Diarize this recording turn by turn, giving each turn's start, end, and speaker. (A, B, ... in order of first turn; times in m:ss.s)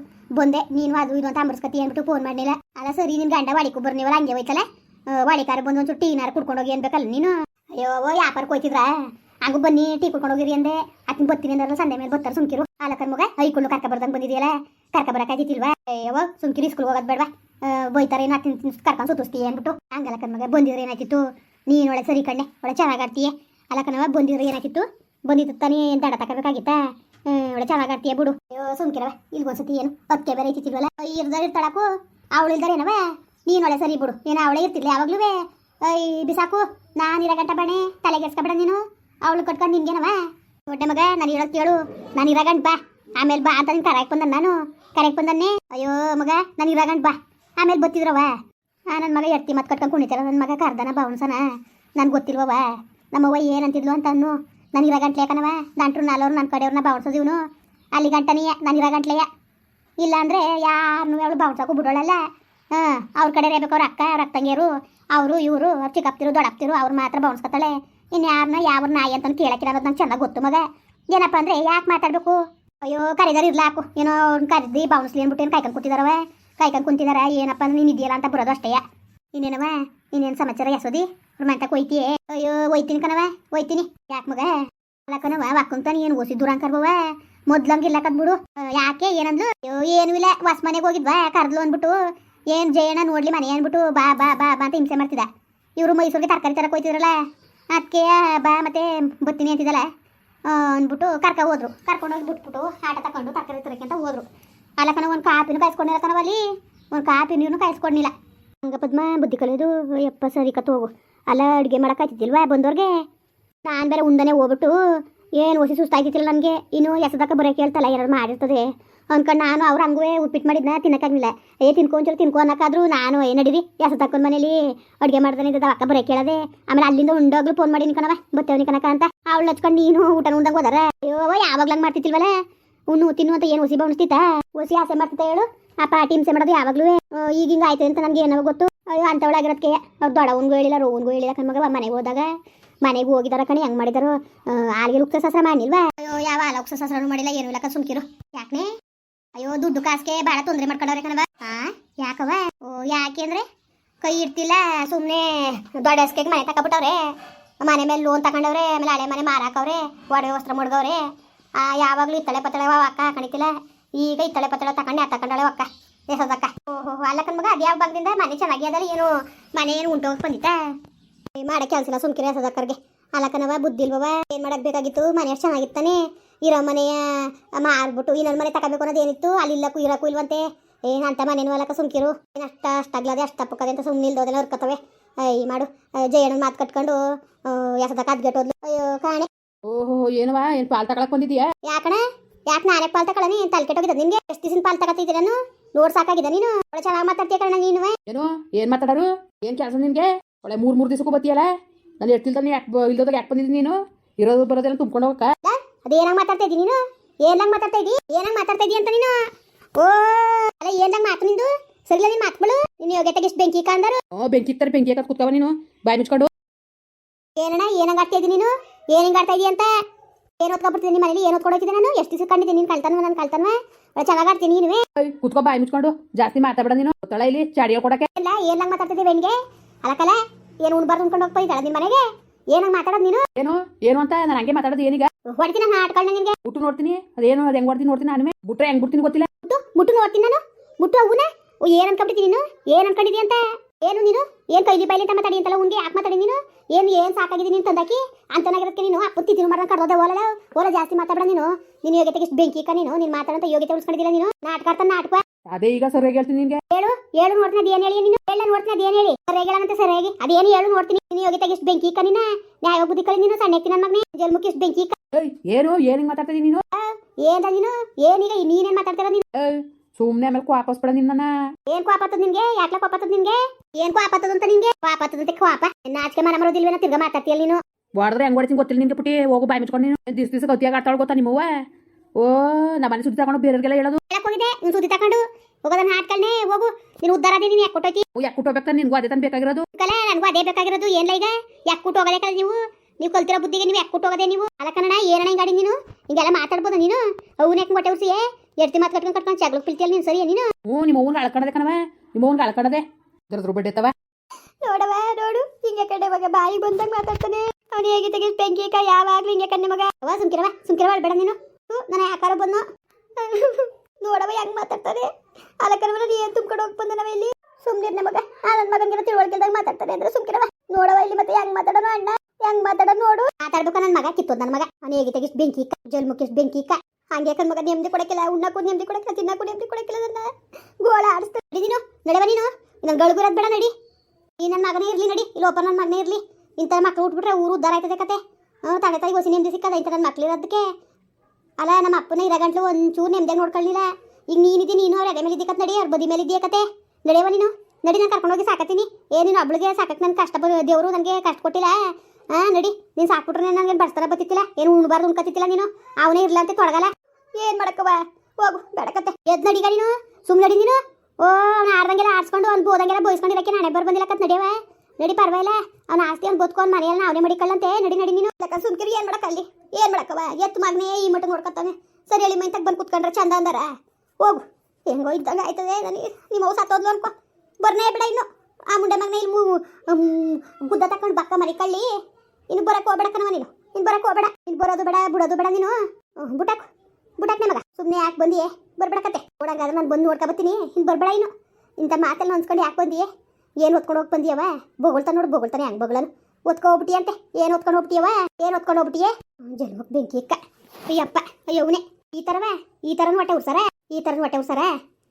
0:00.4-0:48.4 A
0:48.9-0:57.4 A
0:57.9-0:59.3 A
1:00.0-1:18.8 A
1:19.3-1:37.2 A
1:37.7-1:39.9 A
1:40.5-1:44.3 A
1:44.8-1:52.9 A
1:53.6-2:12.4 A
2:12.9-2:28.8 A
2:29.3-2:33.4 A
2:34.0-2:41.0 A
2:41.6-2:50.7 A
2:51.4-3:09.3 A
3:09.6-3:11.5 B
3:11.6-3:18.0 A
3:18.1-3:25.3 B
3:25.4-3:34.0 A
3:34.1-3:36.3 B
3:37.4-3:39.7 A
3:40.4-3:44.8 A
3:45.0-3:48.1 B
3:48.2-3:53.2 A
3:53.4-3:55.1 B
3:55.3-3:56.4 A
3:56.4-3:59.3 B
3:59.4-4:15.2 A
4:15.5-4:16.6 B
4:16.7-4:25.0 A
4:25.1-4:26.6 B
4:26.7-4:29.2 A
4:29.4-4:31.3 B
4:31.7-4:37.6 A
4:38.0-4:41.6 B
4:42.2-4:44.0 B
4:44.1-4:48.0 A
4:48.2-4:49.6 B
4:49.7-5:00.5 A
5:00.6-5:03.9 B
5:04.6-5:15.1 A
5:15.6-5:33.7 A
5:34.4-5:40.6 A
5:41.6-6:21.9 A
6:22.5-6:26.7 A
6:27.2-6:33.1 A
6:33.6-6:44.7 A